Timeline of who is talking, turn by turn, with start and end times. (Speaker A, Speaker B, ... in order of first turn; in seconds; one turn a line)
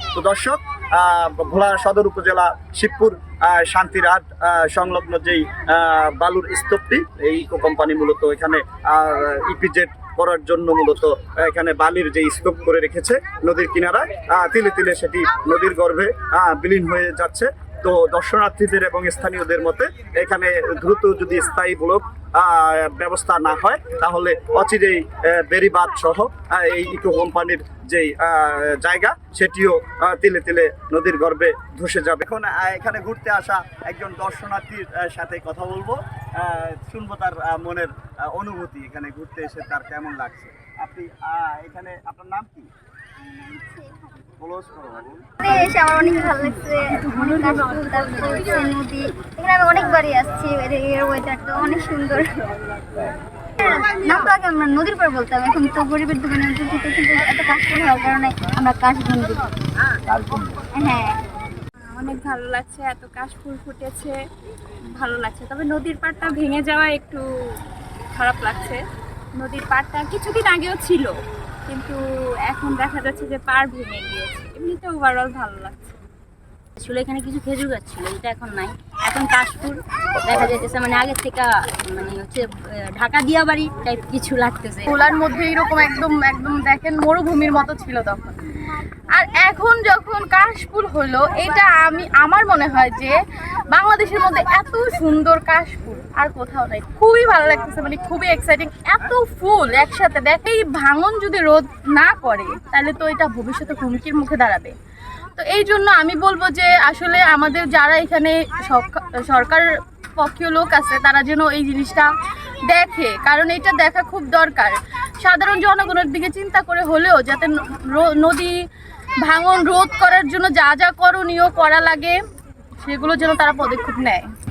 Speaker A: 0.1-42.7
Speaker B: 43.2-44.1
Speaker A: 44.4-45.3
Speaker B: 45.4-52.3
Speaker B: 53.0-59.5
Speaker B: 60.1-61.2
Speaker C: 61.9-64.2
Speaker C: 65.0-67.2
Speaker C: 68.1-68.8
Speaker C: 69.4-71.1
Speaker C: 71.7-75.9
Speaker D: 76.8-84.8
Speaker E: 84.9-93.2
Speaker E: 93.7-104.8
Speaker E: 105.4-112.1
Speaker E: 112.7-118.5
Speaker E: 119.2-122.2
Speaker E: 122.8-124.2